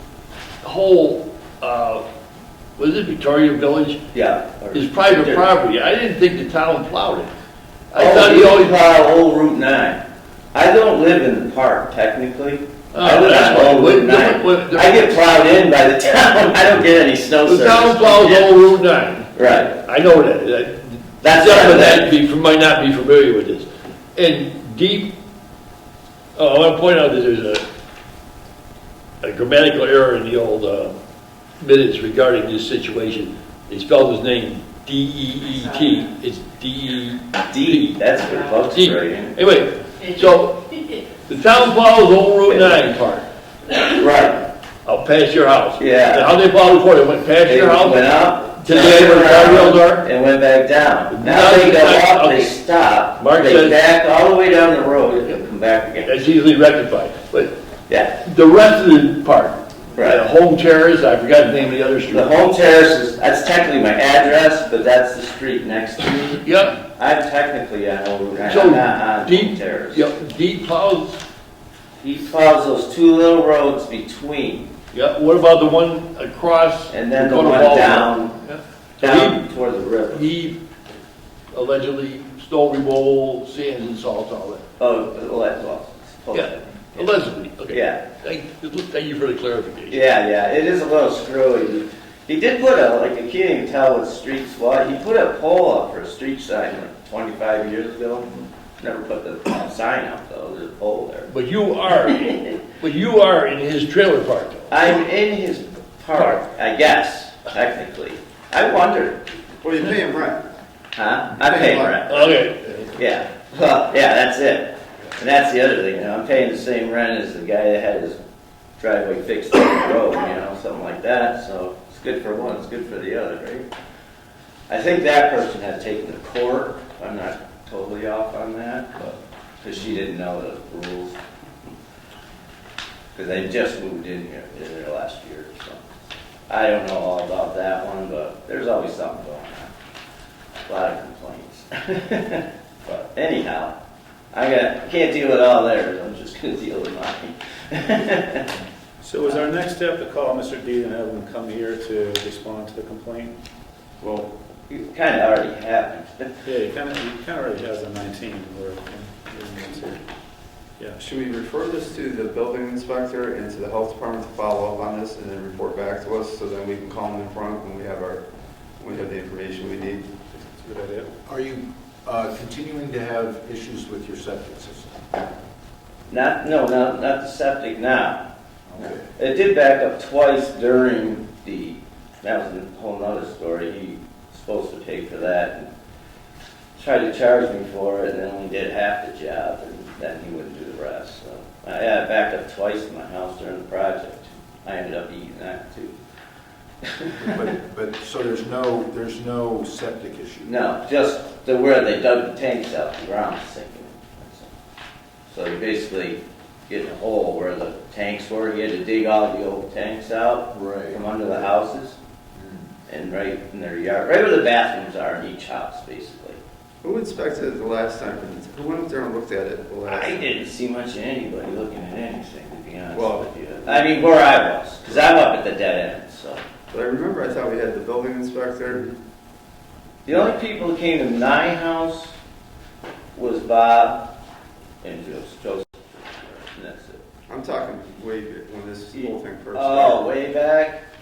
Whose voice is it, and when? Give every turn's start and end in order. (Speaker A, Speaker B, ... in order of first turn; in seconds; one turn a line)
Speaker A: 0.6-2.0
Speaker A: 2.8-4.0
Speaker B: 4.1-5.5
Speaker A: 4.7-7.3
Speaker A: 7.9-8.8
Speaker B: 8.0-10.0
Speaker B: 10.5-18.6
Speaker A: 12.9-15.2
Speaker A: 17.4-19.3
Speaker B: 19.3-19.8
Speaker A: 19.8-25.2
Speaker B: 21.2-22.1
Speaker A: 26.3-27.6
Speaker A: 29.2-31.0
Speaker A: 31.6-38.0
Speaker B: 37.5-39.4
Speaker A: 38.7-43.3
Speaker B: 42.5-42.9
Speaker B: 43.8-44.4
Speaker A: 44.8-50.0
Speaker B: 45.8-46.3
Speaker B: 47.5-56.1
Speaker A: 51.1-52.5
Speaker A: 53.2-53.8
Speaker A: 56.0-57.6
Speaker B: 57.9-58.2
Speaker A: 58.2-62.3
Speaker B: 59.9-60.2
Speaker B: 62.1-70.1
Speaker A: 66.3-66.8
Speaker A: 68.5-71.2
Speaker B: 72.0-74.7
Speaker A: 74.9-79.5
Speaker B: 76.9-78.4
Speaker B: 79.0-80.3
Speaker A: 80.1-80.6
Speaker A: 81.5-84.6
Speaker B: 84.8-88.0
Speaker A: 86.3-90.0
Speaker B: 89.9-101.3
Speaker A: 101.3-104.8
Speaker B: 102.1-102.4
Speaker B: 104.7-109.3
Speaker A: 106.1-106.4
Speaker C: 109.6-110.4
Speaker B: 111.0-112.3
Speaker C: 111.4-112.2
Speaker A: 112.1-112.9
Speaker B: 113.0-118.2
Speaker B: 118.8-123.7
Speaker B: 124.7-128.9
Speaker B: 129.6-131.2
Speaker B: 133.1-135.9
Speaker B: 136.5-139.7
Speaker B: 140.7-143.8
Speaker B: 144.3-148.5
Speaker D: 149.0-153.3
Speaker B: 154.0-156.3
Speaker D: 156.4-160.0
Speaker C: 161.0-168.2
Speaker C: 168.8-170.1
Speaker D: 170.3-171.1
Speaker E: 171.2-175.2
Speaker B: 176.1-178.2
Speaker E: 178.7-179.0
Speaker B: 178.8-185.7
Speaker B: 186.8-195.9
Speaker B: 196.9-197.5
Speaker E: 197.2-200.5
Speaker B: 200.4-204.5
Speaker B: 205.3-212.0
Speaker E: 210.5-211.0
Speaker E: 212.3-212.7
Speaker B: 212.9-216.4
Speaker C: 216.8-220.3
Speaker B: 219.8-226.4
Speaker C: 222.9-223.9
Speaker C: 226.7-228.9
Speaker B: 230.0-232.1
Speaker B: 233.1-234.1
Speaker B: 234.8-237.0
Speaker C: 237.3-240.0
Speaker B: 238.9-240.8